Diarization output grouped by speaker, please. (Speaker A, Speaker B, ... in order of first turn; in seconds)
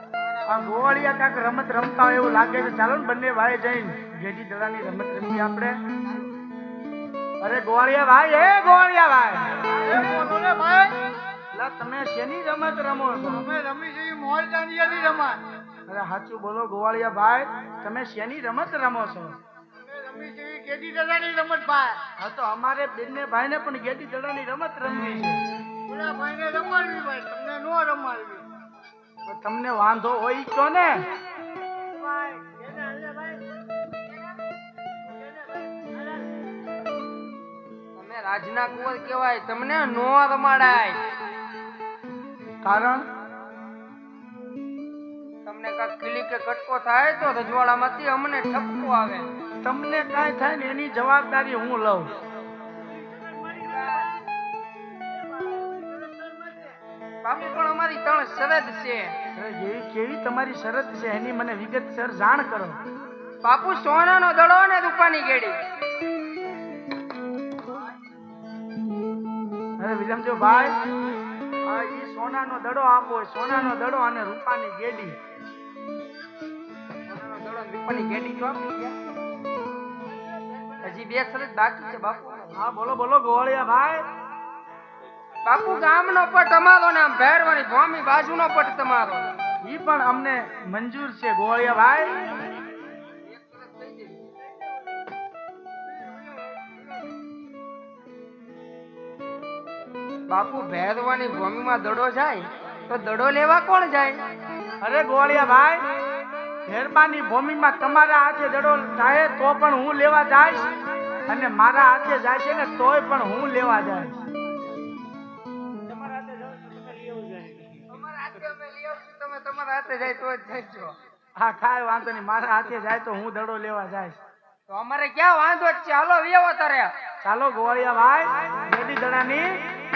Speaker A: 0.4-5.8, 7.4-9.8, 11.5-13.5, 15.9-19.4, 22.2-25.4, 29.2-31.1, 42.6-43.0, 49.6-52.1, 59.3-62.8, 69.8-70.8, 71.6-75.2, 82.5-84.0, 89.6-92.4, 104.8-105.8, 106.7-110.8, 111.3-114.2, 121.3-124.2, 127.2-129.6
Speaker B: 9.8-11.1, 13.4-15.5, 19.8-22.1, 25.9-28.4, 32.1-33.4, 56.0-56.5
Speaker C: 37.9-41.0, 45.4-49.3, 53.4-54.1, 57.2-59.2, 63.4-65.6, 77.1-79.0, 80.7-82.5, 85.4-89.3, 93.1-94.3, 100.3-104.2, 116.1-121.0, 124.7-126.9